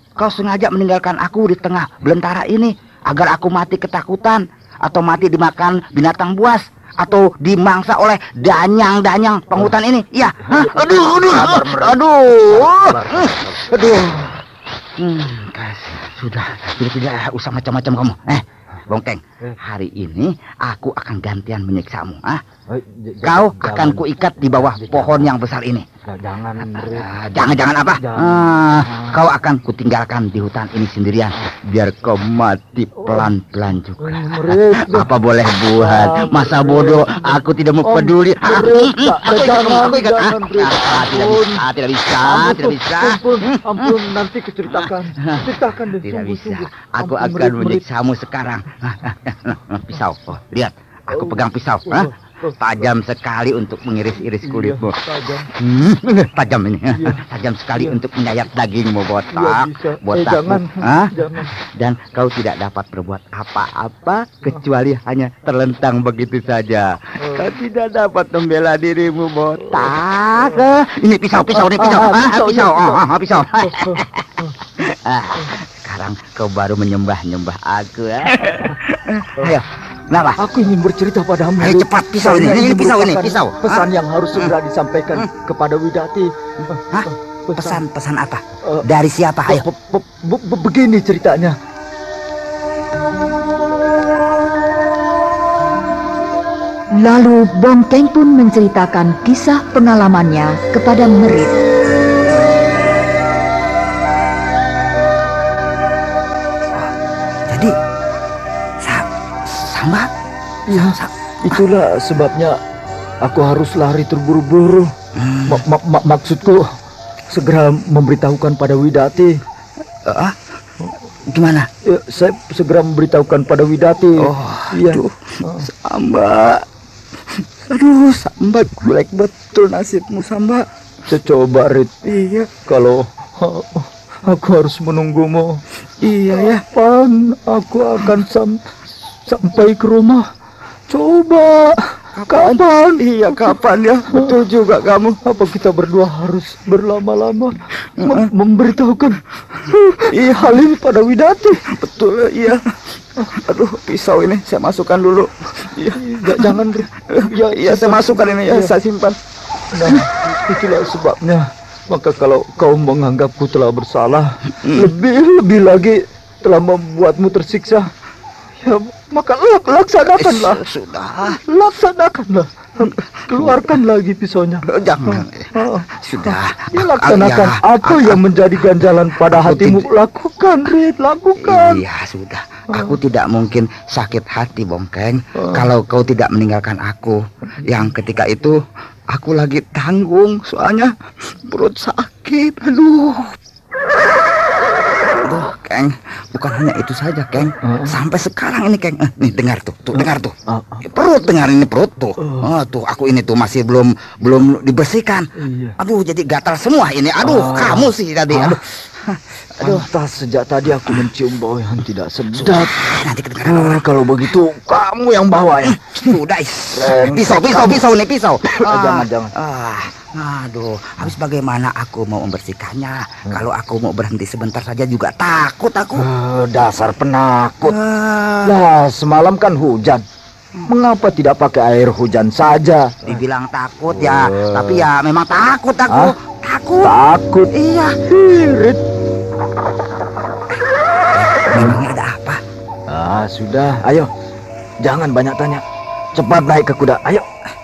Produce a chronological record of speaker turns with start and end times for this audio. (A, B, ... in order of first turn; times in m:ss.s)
0:00.2-0:14.1 A
0:10.4-0:14.2 B
0:15.0-0:22.4 A
0:22.7-0:24.0 B
0:23.2-0:25.8 A
0:24.6-0:25.3 B
0:26.1-0:29.2 B
0:26.8-0:44.1 A
0:33.0-0:33.3 B
0:34.0-0:41.6 B
0:42.2-0:47.8 B
0:44.7-0:55.0 A
0:51.1-0:52.9 B
0:54.4-0:55.5 B
0:55.6-1:14.3 A
0:59.3-1:01.5 B
1:07.2-1:07.5 B
1:11.4-1:14.4 B
1:14.8-1:20.4 A
1:20.4-1:27.8 B
1:21.6-1:24.5 A
1:26.9-1:29.6 A
1:29.4-1:31.6 B
1:37.0-1:41.5 C
1:48.8-1:50.1 A
1:50.7-1:51.1 A
1:50.7-1:52.6 B
1:53.2-1:54.9 B
1:55.2-1:55.6 A
1:55.5-1:56.7 B
1:57.3-1:59.4 B
2:00.1-2:00.4 A
2:01.3-2:01.7 A
2:01.8-2:05.7 B
2:04.2-2:06.6 A
2:07.7-2:10.7 A
2:11.1-2:15.6 B
2:16.0-2:16.6 A
2:16.2-2:18.6 B
2:19.3-2:20.3 B
2:20.9-2:23.6 B
2:22.2-2:25.2 A
2:24.1-2:32.6 B
2:30.1-2:30.5 A
2:32.3-2:32.6 A
2:33.2-2:33.9 B
2:33.4-2:36.6 A
2:35.7-2:38.8 B
2:37.1-2:39.2 A
2:39.7-2:47.9 B
2:44.6-2:44.9 A
2:48.6-2:50.7 B
2:50.1-2:51.4 A
2:51.4-3:01.8 B
2:53.4-2:53.8 A
2:54.7-2:59.8 A
3:01.4-3:08.6 A
3:09.1-3:10.9 A
3:11.5-3:13.3 A
3:15.2-3:20.3 A
3:17.7-3:17.9 B
3:19.9-3:20.8 B
3:20.9-3:25.3 A
3:25.4-3:25.8 B
3:25.8-3:29.8 A
3:27.2-3:28.6 B
3:29.6-3:36.2 B
3:32.3-3:33.8 A
3:35.7-3:46.1 A
3:36.7-3:37.8 B
3:38.6-3:39.3 B
3:46.0-3:47.8 B
3:47.7-3:48.5 A
3:48.4-3:50.0 B
3:50.6-3:53.2 B
3:53.1-3:56.9 A
3:54.0-3:54.8 B
3:56.8-3:57.5 B
3:57.5-3:58.0 A
3:58.1-3:58.8 B
4:01.1-4:02.4 A
4:01.5-4:01.8 B
4:02.9-4:04.1 B
4:04.8-4:05.6 B
4:06.2-4:07.3 B